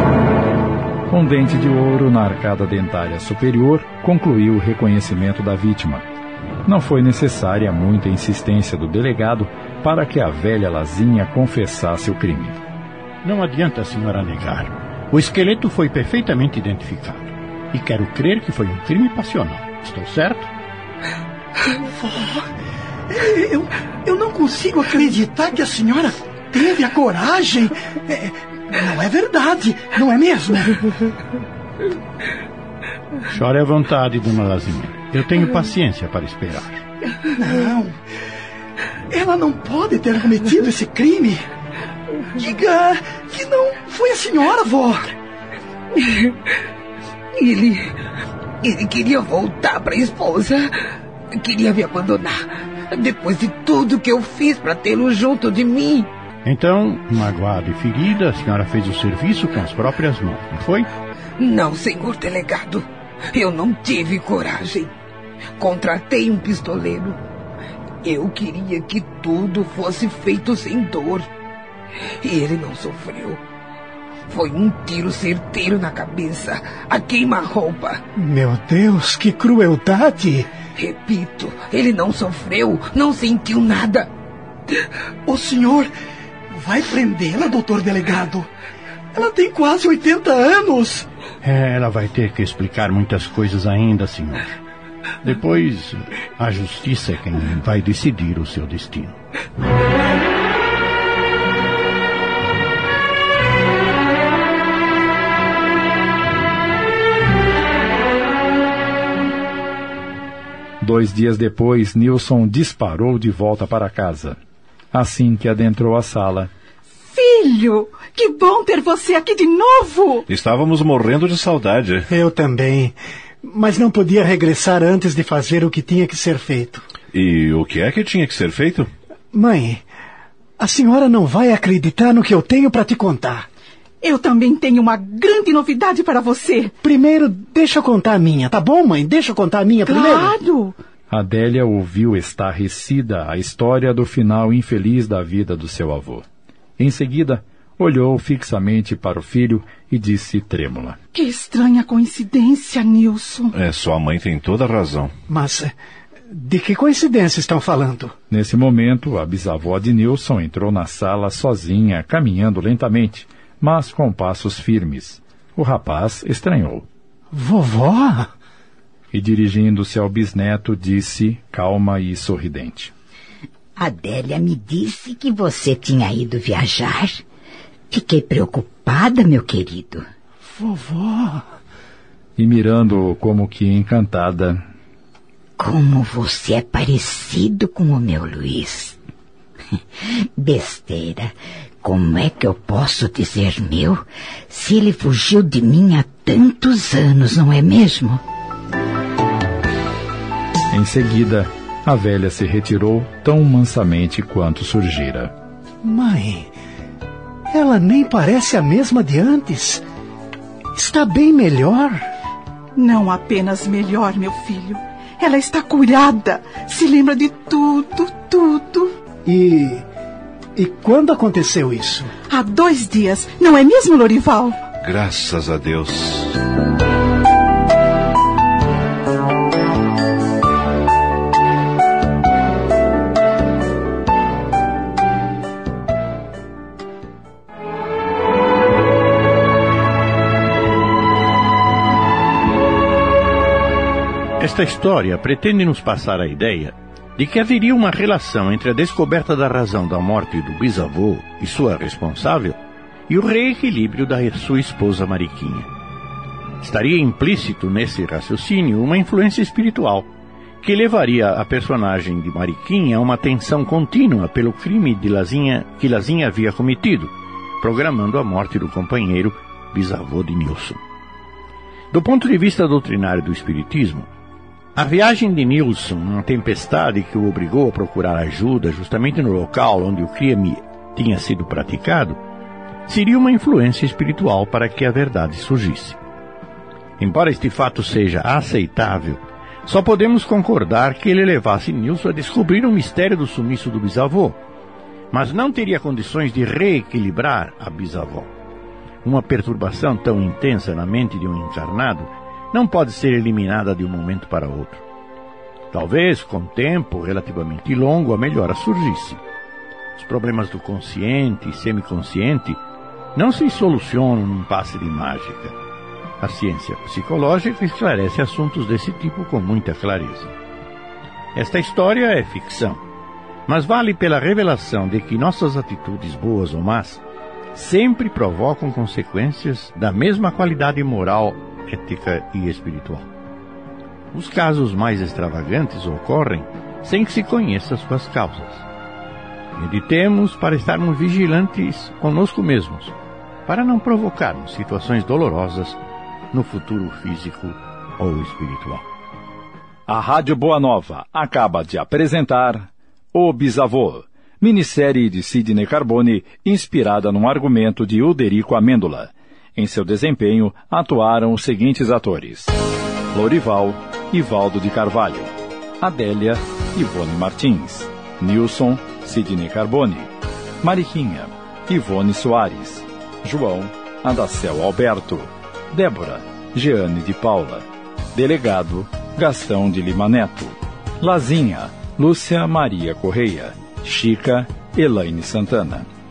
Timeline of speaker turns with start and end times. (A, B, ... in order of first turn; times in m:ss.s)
0:01.1-0:06.0 A
0:06.6-0:12.6 A
0:13.2-0:20.5 B
0:21.9-0:22.5 C
0:23.1-0:30.9 C
0:33.3-0:36.8 B
0:37.3-0:38.0 C
0:39.1-0:41.5 C
0:42.4-0:45.1 C
0:47.4-0:47.9 D
0:48.6-0:50.7 D
0:51.3-0:56.1 D
0:56.4-1:00.9 B
1:01.4-1:04.9 D
1:05.6-1:07.2 D
1:08.0-1:11.3 D
1:12.2-1:13.4 D
1:14.3-1:18.0 D
1:18.2-1:20.5 E
1:20.8-1:24.1 D
1:25.3-1:25.9 C
1:26.5-1:28.5 C
1:29.1-1:31.1 C
1:31.4-1:34.5 B
1:35.2-1:39.2 B
1:50.8-1:54.4 A
1:54.9-1:56.5 A
1:57.1-2:00.3 F
2:00.3-2:02.1 G
2:02.1-2:06.9 E
2:07.1-2:08.9 G
2:09.3-2:09.8 E
2:10.6-2:13.5 E
2:14.0-2:16.7 F
2:16.8-2:20.4 E
2:19.9-2:20.8 F
2:21.1-2:26.2 A
2:26.8-2:31.0 A
2:31.1-2:33.6 F
2:33.5-2:35.1 G
2:35.3-2:35.7 E
2:36.3-2:38.2 E
2:38.3-2:46.9 A
2:47.3-2:48.3 E
2:49.1-2:52.9 A
2:53.8-2:57.2 H
2:57.9-3:00.0 H
3:00.4-3:01.5 E
3:02.4-3:04.6 A
3:05.6-3:09.0 H
3:10.4-3:11.3 H
3:11.8-3:18.2 H
3:20.7-3:25.3 A
3:25.8-3:26.5 E
3:27.5-3:29.8 E
3:30.7-3:32.1 E
3:32.8-3:39.0 F
3:39.2-3:39.9 E
3:40.6-3:42.1 E
3:42.3-3:44.6 F
3:44.8-3:46.4 G
4:04.4-4:15.7 B
4:16.6-4:20.1 B
4:20.6-4:30.8 B
4:31.9-4:34.1 B
4:34.7-4:42.2 B
4:42.9-4:46.0 B
4:47.0-4:54.4 B
4:55.1-4:58.3 B
4:59.0-5:04.8 B
5:05.7-5:09.2 B
5:10.0-5:12.6 B
5:13.2-5:15.6 B
5:16.2-5:20.4 B
5:21.4-5:22.8 B
5:23.4-5:27.0 B
5:27.5-5:33.1 B
5:34.1-5:38.7 B
5:39.6-5:45.8 B
5:46.3-5:48.8 B
5:49.9-6:02.6 A
6:03.1-6:10.1 A
6:10.6-6:25.9 A